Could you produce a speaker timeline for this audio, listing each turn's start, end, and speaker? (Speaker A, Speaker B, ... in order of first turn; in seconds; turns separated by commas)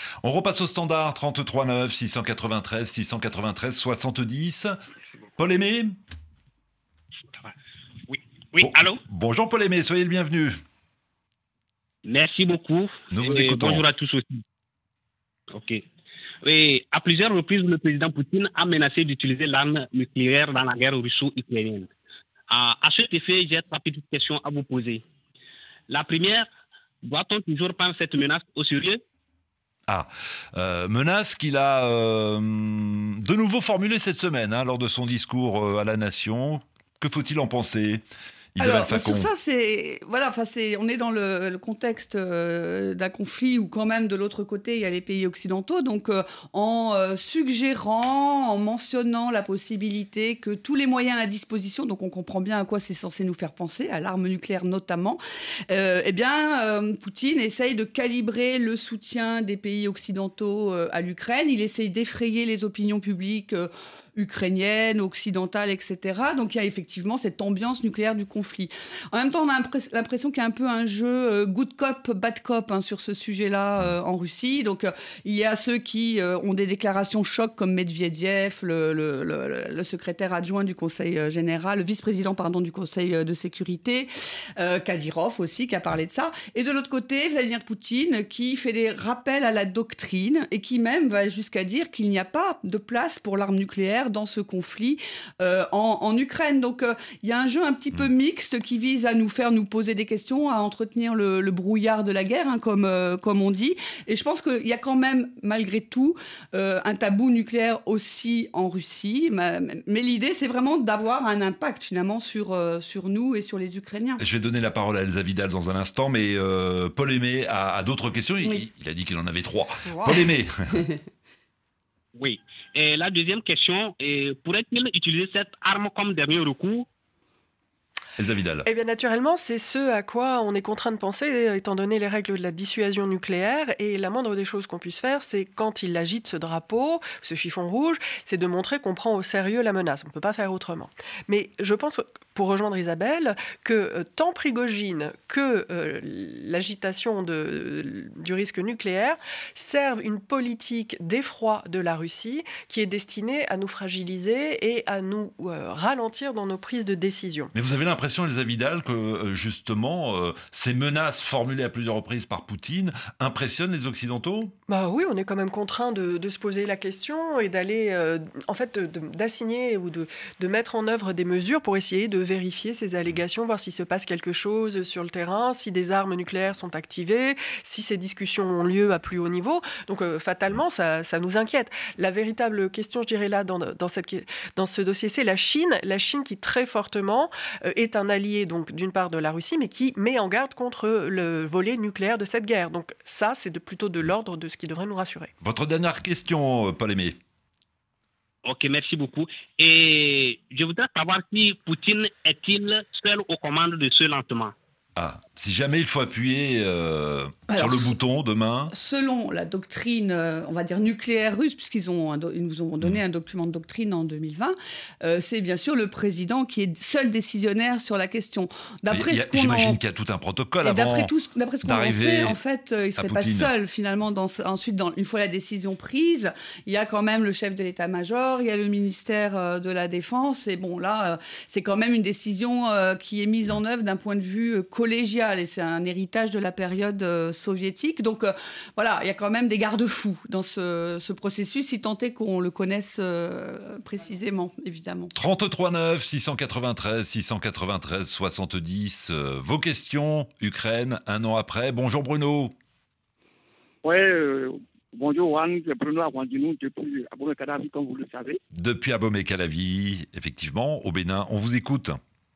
Speaker A: 0.2-4.7, Speaker A: 5.4-5.9, Speaker B: 8.1-9.0, Speaker A: 8.6-10.6, Speaker B: 12.1-14.3, Speaker A: 13.1-13.9, Speaker B: 16.4-21.9, Speaker B: 22.5-25.0, Speaker B: 25.9-26.5, Speaker B: 27.1-29.0, Speaker A: 29.9-38.0, Speaker A: 38.6-39.3, Speaker C: 38.6-55.2, Speaker C: 55.7-114.2, Speaker A: 114.2-120.8, Speaker B: 122.2-126.9, Speaker A: 128.2-128.7, Speaker D: 128.6-157.5, Speaker A: 157.5-164.5, Speaker D: 164.7-195.3, Speaker A: 195.4-197.2, Speaker B: 198.5-204.5, Speaker A: 205.0-208.7, Speaker C: 207.5-207.9, Speaker C: 208.7-219.8, Speaker A: 218.9-221.1, Speaker C: 220.6-245.1, Speaker A: 221.6-222.4, Speaker A: 223.0-223.5, Speaker A: 245.1-252.5, Speaker E: 253.8-258.4, Speaker A: 258.6-262.0